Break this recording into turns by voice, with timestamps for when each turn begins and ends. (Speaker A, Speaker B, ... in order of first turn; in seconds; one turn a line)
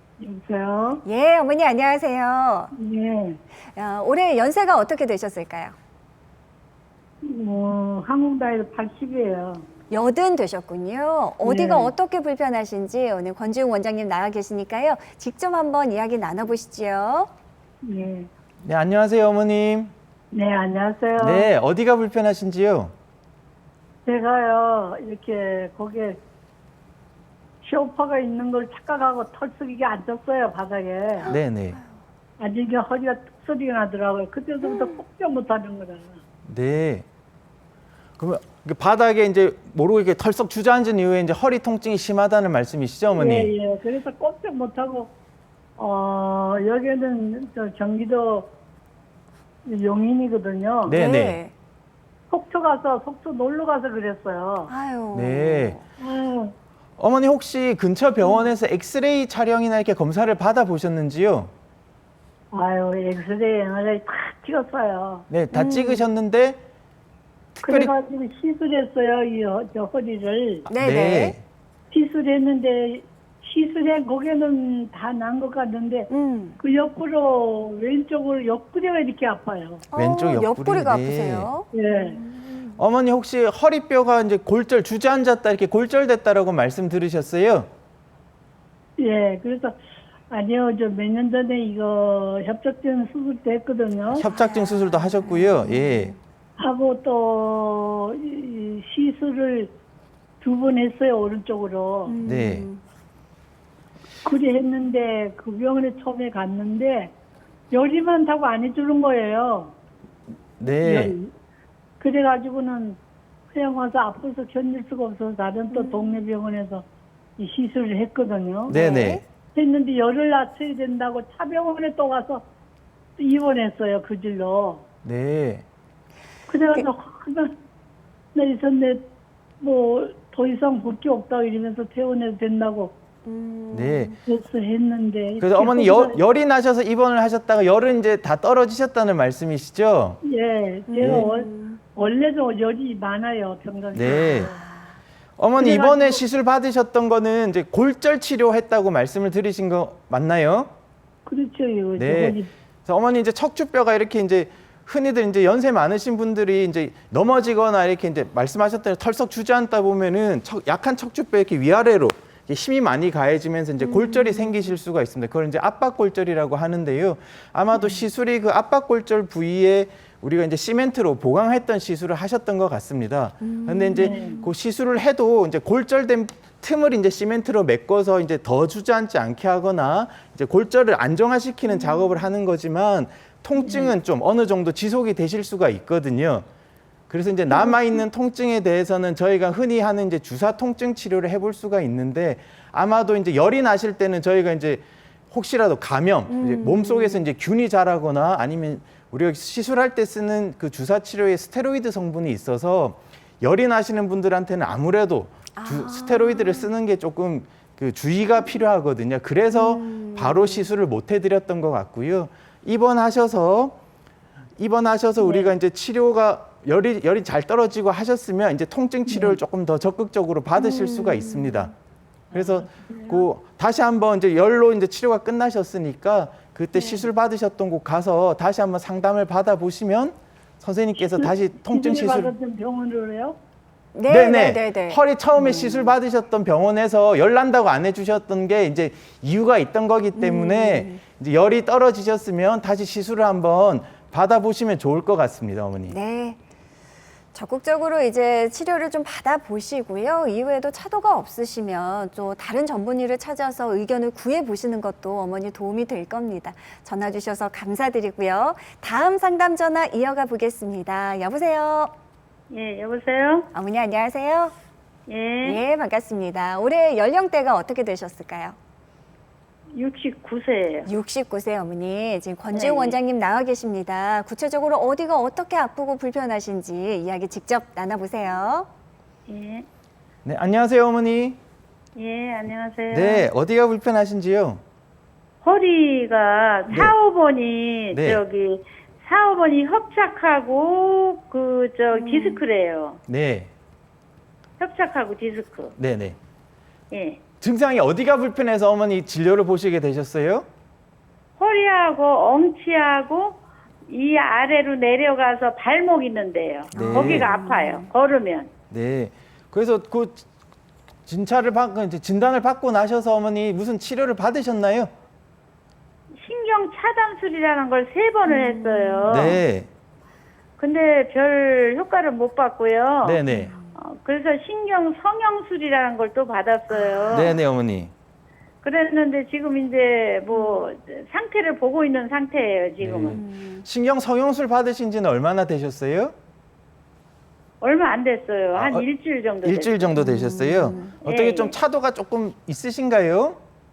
Speaker A: 0.2-1.0
Speaker B: 1.0-2.7
Speaker A: 2.7-3.4
Speaker B: 3.7-5.8
Speaker A: 7.2-9.7
Speaker B: 9.9-17.3
Speaker A: 11.4-11.9
Speaker A: 17.8-18.3
Speaker C: 18.6-19.9
Speaker A: 20.3-21.5
Speaker C: 21.2-22.9
Speaker A: 24.1-26.2
Speaker A: 27.6-31.3
Speaker C: 31.3-31.8
Speaker A: 32.4-36.2
Speaker B: 34.6-35.0
Speaker C: 36.5-37.0
Speaker C: 38.2-43.5
Speaker A: 43.1-45.1
Speaker A: 45.8-48.5
Speaker A: 49.6-51.0
Speaker C: 50.8-51.4
Speaker B: 50.9-51.5
Speaker A: 52.3-54.7
Speaker B: 54.7-55.9
Speaker C: 55.1-55.8
Speaker A: 56.0-56.5
Speaker C: 57.0-61.5
Speaker A: 62.5-65.3
Speaker C: 65.3-66.6
Speaker B: 65.5-66.0
Speaker C: 67.5-67.9
Speaker A: 67.6-70.7
Speaker B: 70.7-71.3
Speaker C: 70.7-71.4
Speaker A: 71.9-79.8
Speaker B: 76.1-76.6
Speaker B: 79.9-82.7
Speaker C: 80.0-81.5
Speaker A: 81.7-82.2
Speaker C: 82.8-87.7
Speaker A: 89.0-89.7
Speaker A: 90.3-94.3
Speaker C: 94.1-96.1
Speaker B: 94.2-96.2
Speaker A: 96.6-99.7
Speaker A: 100.4-102.2
Speaker B: 102.0-102.8
Speaker C: 102.2-102.7
Speaker A: 104.2-107.1
Speaker A: 107.7-109.7
Speaker C: 110.6-111.1
Speaker A: 110.6-111.3
Speaker A: 112.0-113.0
Speaker A: 113.5-116.8
Speaker B: 115.7-116.2
Speaker A: 117.4-118.8
Speaker C: 118.7-119.2
Speaker B: 118.7-119.2
Speaker A: 119.5-122.4
Speaker A: 123.2-124.8
Speaker C: 125.0-125.6
Speaker A: 126.5-127.5
Speaker A: 128.3-129.1
Speaker A: 129.6-132.9
Speaker B: 133.2-134.2
Speaker C: 133.7-134.1
Speaker A: 134.2-136.2
Speaker C: 135.4-140.2
Speaker A: 140.2-144.6
Speaker B: 140.9-141.8
Speaker C: 141.0-141.3
Speaker C: 143.9-144.5
Speaker B: 144.2-145.0
Speaker C: 145.4-150.7
Speaker A: 145.6-146.2
Speaker A: 151.2-152.5
Speaker C: 152.0-186.4
Speaker B: 163.8-164.7
Speaker B: 173.4-174.5
Speaker A: 174.0-174.4
Speaker B: 181.7-182.2
Speaker B: 183.6-183.9
Speaker C: 187.1-213.8
Speaker B: 187.5-187.9
Speaker B: 196.3-197.2
Speaker B: 205.5-206.7
Speaker B: 209.5-210.7
Speaker C: 214.6-221.7
Speaker D: 215.2-215.5
Speaker B: 220.6-221.7
Speaker C: 222.3-232.3
Speaker A: 222.3-223.2
Speaker B: 226.7-227.1
Speaker A: 231.0-233.4
Speaker B: 233.9-235.9
Speaker C: 234.1-245.9
Speaker B: 240.2-241.0
Speaker B: 245.9-246.4
Speaker B: 247.3-261.9
Speaker D: 262.5-263.5
Speaker B: 263.5-264.5
Speaker D: 265.1-265.6
Speaker B: 265.4-268.6
Speaker D: 269.7-270.9
Speaker B: 270.9-278.7
Speaker D: 272.5-273.0
Speaker D: 279.3-279.6
Speaker C: 280.2-281.4
Speaker D: 281.9-283.3
Speaker C: 282.9-284.6
Speaker D: 285.4-293.0
Speaker C: 286.7-286.9
Speaker C: 287.9-288.2
Speaker B: 291.9-292.4
Speaker C: 293.1-293.5
Speaker D: 294.6-295.7
Speaker C: 295.8-296.2
Speaker D: 296.9-297.2
Speaker C: 297.4-300.4
Speaker D: 301.4-308.5
Speaker B: 306.7-307.9
Speaker C: 306.7-307.3
Speaker C: 308.7-310.2
Speaker C: 311.1-314.9
Speaker D: 316.2-319.4
Speaker B: 318.2-319.4
Speaker C: 319.1-319.7
Speaker D: 320.6-323.2
Speaker C: 323.0-323.5
Speaker B: 323.3-323.7
Speaker D: 323.7-327.4
Speaker B: 326.7-327.3
Speaker C: 327.1-327.9
Speaker D: 328.6-333.2
Speaker B: 330.3-330.6
Speaker C: 332.8-336.1
Speaker B: 333.1-333.6
Speaker D: 337.6-340.0
Speaker C: 338.5-338.9
Speaker C: 339.4-343.4
Speaker B: 340.0-340.9
Speaker D: 341.0-341.6